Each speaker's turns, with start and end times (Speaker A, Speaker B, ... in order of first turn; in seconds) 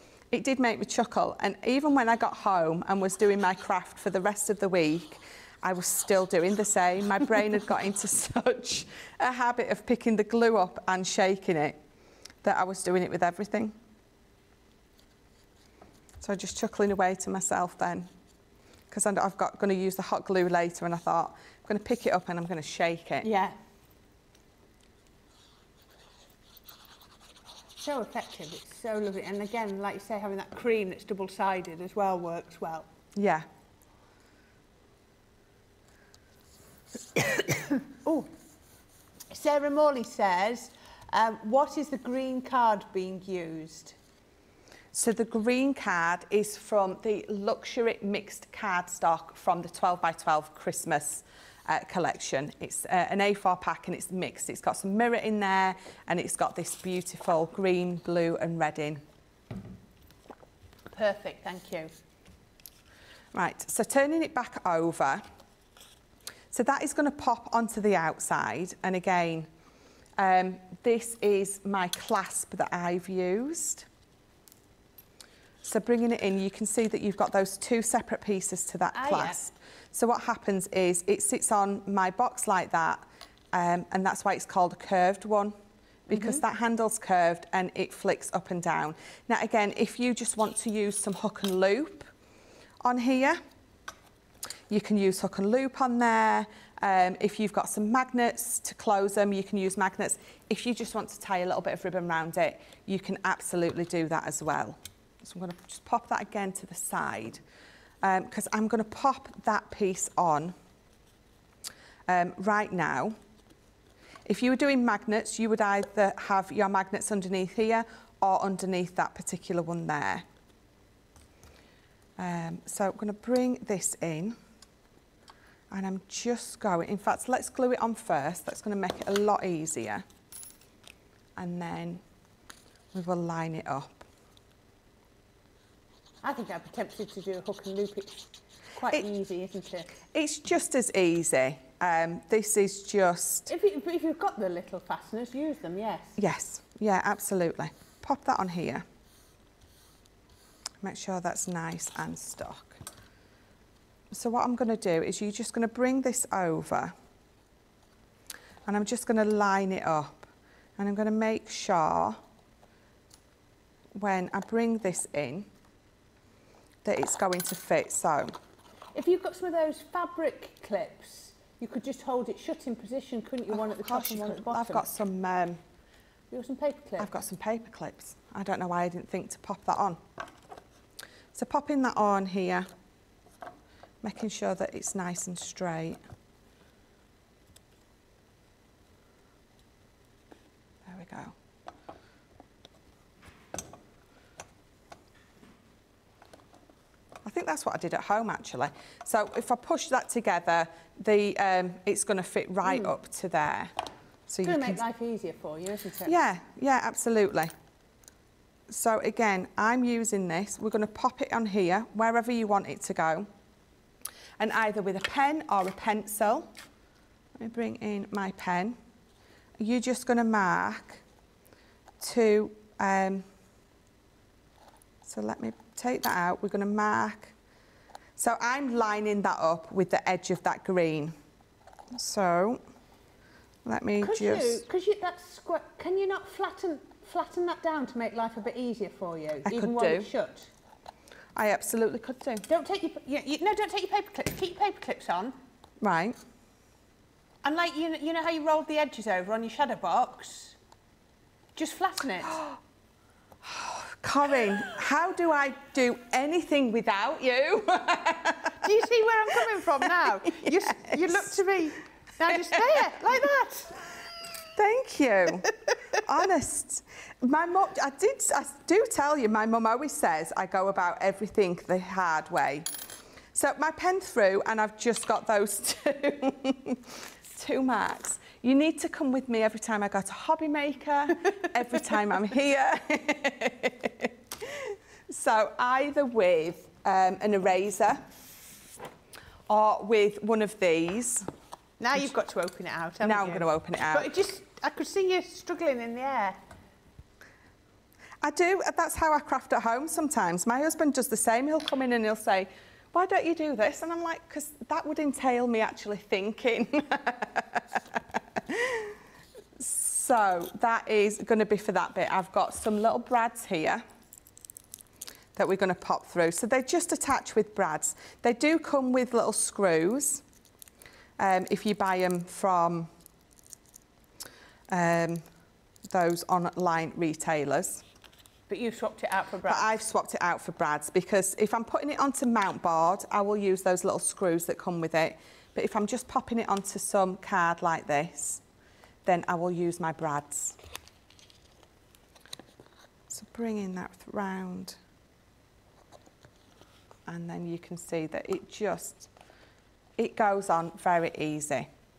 Speaker A: 0.3-11.8, 12.4-13.8, 16.2-18.1, 18.9-23.3, 33.1-33.5, 44.9-59.0, 63.3-65.2, 66.5-69.5, 70.2-73.8, 75.6-85.5, 86.1-92.1, 92.8-93.4, 94.7-107.4, 108.0-110.5, 112.1-113.2, 114.2-120.2, 122.2-124.4, 125.7-130.0, 131.3-132.0, 132.9-134.0, 140.1-143.5, 146.2-148.8, 150.8-152.8, 154.1-156.9, 158.7-162.2, 163.9-165.5, 166.8-168.3, 173.5-175.6, 177.0-180.0, 181.3-182.7, 184.0-186.0, 190.8-191.3, 197.2-203.7, 204.3-204.8, 206.0-207.5, 208.7-213.3, 214.4-216.5, 217.4-218.8, 219.6-221.0, 222.0-223.2, 225.0-227.3, 228.2-231.2, 231.9-232.6, 233.6-234.6, 239.4-240.1, 241.3-242.4, 245.8-246.2, 252.3-252.6, 253.4-258.7, 260.2-261.3, 264.5-272.7, 273.3-288.1, 289.5-291.2, 293.0-294.1, 298.2-309.0, 309.6-313.8, 315.3-320.2, 321.2-322.9, 324.7-325.2, 325.8-327.8, 329.5-338.4, 339.0-340.6, 343.1-344.8, 347.1-349.1, 350.0-351.7
Speaker B: 23.2-23.6, 27.8-32.9, 37.6-38.3, 39.3-44.0, 60.9-61.9, 78.9-79.4, 86.1-86.4, 136.2-139.9, 143.5-146.2, 168.9-174.9, 176.3-177.1, 202.7-202.9, 204.4-206.1, 234.0-240.5, 242.5-245.3, 247.4-250.6, 251.6-252.3, 258.6-263.8, 291.8-296.4, 328.5-329.7